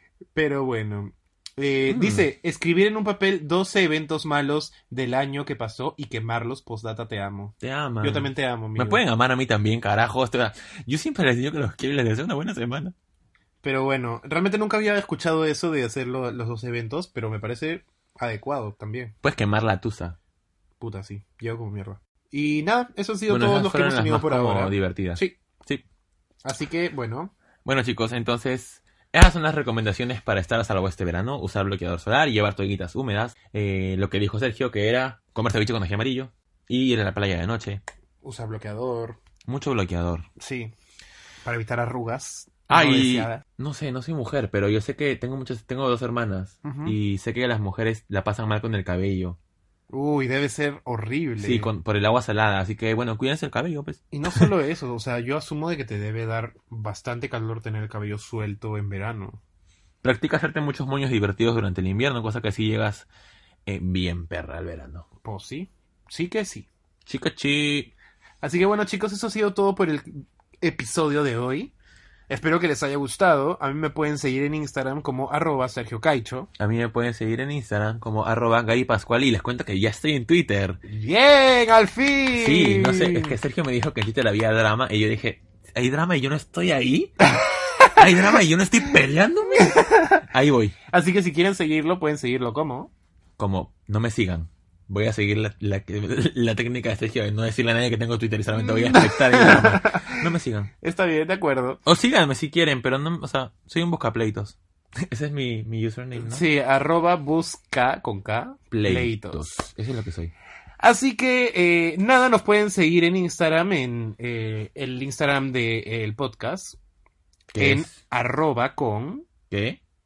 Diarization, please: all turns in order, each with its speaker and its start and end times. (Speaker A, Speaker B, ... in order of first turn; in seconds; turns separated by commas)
Speaker A: 0.3-9.0, Speaker B: 1.9-2.3, Speaker B: 7.6-12.9, Speaker A: 13.6-19.1, Speaker B: 19.2-20.2, Speaker A: 20.8-25.4, Speaker B: 23.3-25.8, Speaker A: 26.4-27.3, Speaker B: 27.6-37.8, Speaker A: 38.2-39.2, Speaker B: 39.5-40.3, Speaker A: 40.4-40.7, Speaker A: 41.5-43.4, Speaker B: 42.7-49.4, Speaker A: 46.6-47.0, Speaker A: 49.9-51.7, Speaker B: 51.4-54.5, Speaker A: 54.1-59.4, Speaker B: 60.0-63.1, Speaker B: 63.7-65.1, Speaker A: 65.2-66.7, Speaker B: 67.1-67.9, Speaker A: 68.4-71.7, Speaker A: 72.3-76.5, Speaker B: 76.6-80.8, Speaker A: 80.8-83.4, Speaker B: 82.3-87.2, Speaker A: 87.4-88.4, Speaker B: 87.9-90.8, Speaker A: 89.6-90.2, Speaker A: 90.9-92.9, Speaker B: 93.4-100.7, Speaker A: 98.6-100.2, Speaker A: 100.8-101.8, Speaker B: 101.8-104.6, Speaker B: 105.1-106.5, Speaker A: 106.2-109.5, Speaker B: 108.7-110.3, Speaker A: 110.8-116.8, Speaker B: 117.5-117.9, Speaker A: 117.6-119.3, Speaker B: 119.5-119.8